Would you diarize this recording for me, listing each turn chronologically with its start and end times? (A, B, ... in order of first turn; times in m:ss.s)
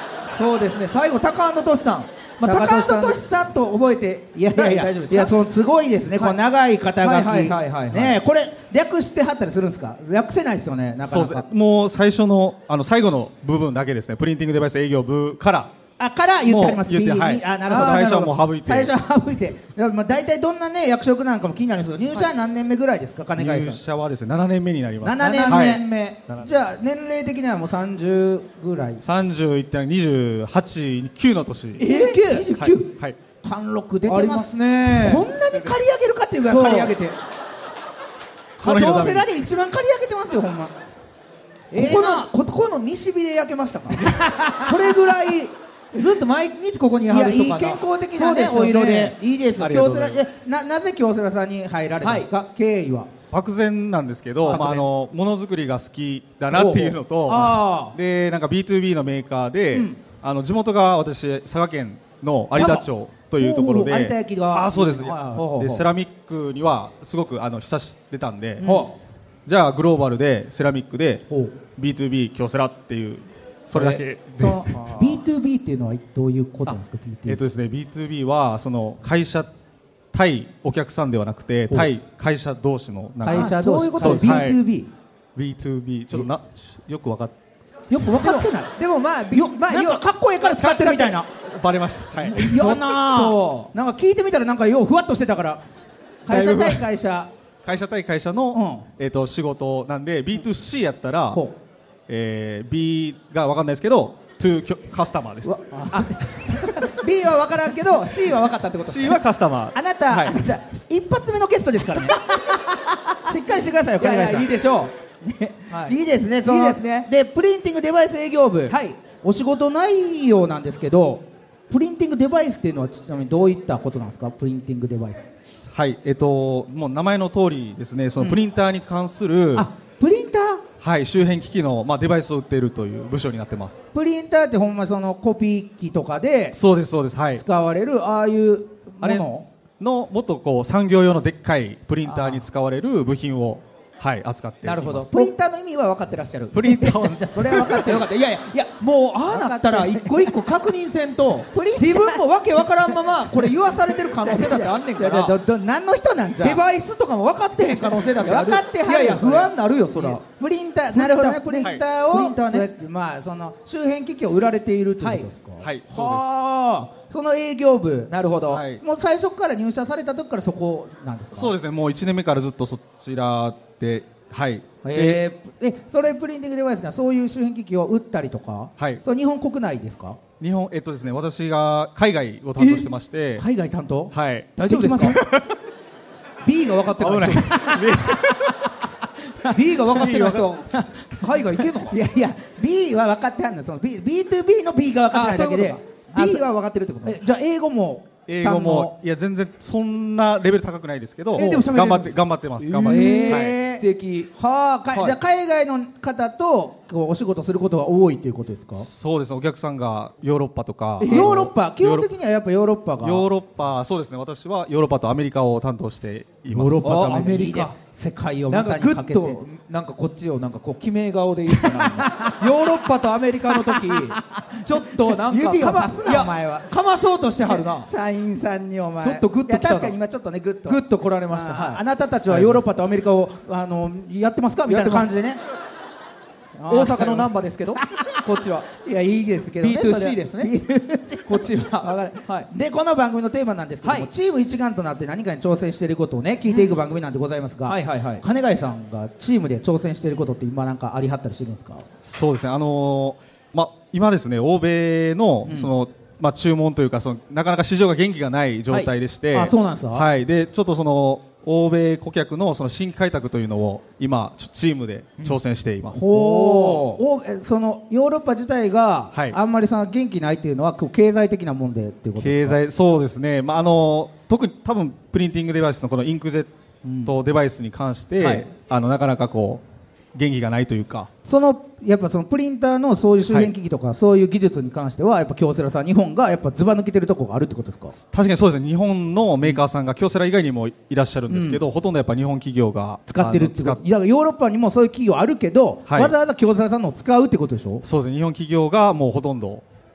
0:00.4-0:05.3 A
0:02.4-0:03.2 B
0:04.4-0:11.5 B
0:07.0-0:08.2 A
0:11.1-0:15.7 C
0:16.0-0:23.8 B
0:16.5-0:18.9 C
0:17.7-0:18.3 A
0:23.4-0:26.5 C
0:25.0-0:25.9 B
0:25.2-0:26.2 A
0:26.4-0:29.0 B
0:29.0-0:31.9 C
0:31.8-0:32.9 A
0:31.8-0:32.5 B
0:32.6-0:33.2 C
0:33.4-0:37.2 B
0:34.1-0:35.2 A
0:36.4-0:36.9 A
0:38.6-0:39.3 C
0:38.6-0:40.7 B
0:41.7-0:42.3 B
0:41.7-0:49.2 A
0:43.9-0:44.7 B
0:47.1-0:53.1 B
0:49.6-0:50.2 C
0:52.0-0:52.3 A
0:53.3-1:08.6 C
0:54.5-0:54.8 A
0:56.5-0:57.9 B
0:56.6-0:56.9 A
0:59.7-1:00.0 B
1:02.5-1:05.7 B
1:05.3-1:05.8 A
1:08.6-1:08.9 B
1:08.6-1:08.9 A
1:09.5-1:11.2 C
1:11.3-1:11.5 B
1:11.8-1:15.0 C
1:13.8-1:17.4 B
1:17.2-1:19.5 C
1:20.1-1:24.6 C
1:23.2-1:24.9 B
1:23.3-1:24.6 A
1:25.4-1:27.4 C
1:27.9-1:28.7 B
1:28.0-1:30.0 A
1:29.3-1:31.2 B
1:30.6-1:32.7 C
1:32.2-1:35.6 B
1:32.4-1:33.7 A
1:36.2-1:37.3 B
1:36.3-1:36.8 C
1:37.6-1:41.4 C
1:38.5-1:38.8 B
1:42.1-1:45.6 C
1:45.4-1:46.9 B
1:45.9-1:49.2 A
1:48.8-1:50.4 C
1:49.7-1:52.2 B
1:52.1-1:53.1 A
1:53.2-1:54.5 B
1:54.0-1:54.9 A
1:55.2-2:05.2 B
1:55.7-1:57.1 A
1:58.7-1:59.0 A
2:05.6-2:09.7 C
2:09.5-2:10.6 B
2:10.8-2:13.8 C
2:13.9-2:16.6 B
2:16.5-2:17.4 C
2:17.4-2:19.5 B
2:19.8-2:25.1 C
2:22.1-2:22.4 A
2:24.6-2:26.6 A
2:26.5-2:27.6 C
2:26.6-2:28.1 B
2:27.6-2:35.4 A
2:29.3-2:30.3 B
2:31.5-2:32.2 B
2:34.2-2:36.6 B
2:36.4-2:40.2 A
2:37.6-2:48.1 B
2:40.9-2:42.7 A
2:45.0-2:45.3 A
2:45.6-2:46.3 C
2:48.1-2:48.6 A
2:48.5-2:48.8 C
2:48.7-2:51.5 B
2:51.3-2:55.2 C
2:54.8-3:00.2 B
3:00.4-3:03.4 C
3:02.6-3:05.2 B
3:04.1-3:05.5 C
3:04.6-3:05.2 A
3:06.4-3:07.5 A
3:07.0-3:08.6 C
3:07.1-3:08.3 B
3:09.5-3:12.0 A
3:10.0-3:10.5 C
3:10.7-3:11.2 B
3:11.9-3:16.4 B
3:15.1-3:17.2 A
3:17.0-3:18.9 B
3:18.3-3:23.6 C
3:21.4-3:24.3 A
3:22.8-3:23.8 B
3:24.3-3:28.9 B
3:28.8-3:32.1 C
3:31.0-3:31.4 A
3:31.1-3:33.3 B
3:33.0-3:37.0 C
3:36.5-3:39.4 B
3:36.8-3:37.8 A
3:38.5-3:47.9 A
3:42.0-3:42.4 B
3:43.7-3:46.7 B
3:47.5-3:55.4 B
3:49.0-3:50.0 A
3:50.6-3:52.6 A
3:54.7-3:55.1 A
3:56.6-3:58.2 B
3:56.7-3:58.7 A
3:58.8-4:11.9 B
3:59.6-4:00.5 A
4:01.2-4:02.5 A
4:03.8-4:04.1 A
4:06.5-4:06.8 A
4:07.6-4:08.2 A
4:12.0-4:26.0 C
4:19.3-4:20.1 B
4:25.9-4:32.6 B
4:26.1-4:27.0 A
4:29.1-4:29.4 C
4:32.2-4:36.5 C
4:36.8-4:37.1 B
4:37.0-4:39.6 C
4:40.1-4:41.1 C
4:41.2-4:48.0 B
4:48.0-4:53.8 C
4:51.3-4:51.6 B
4:53.1-4:57.8 B
4:55.9-4:56.1 C
4:57.8-4:59.6 C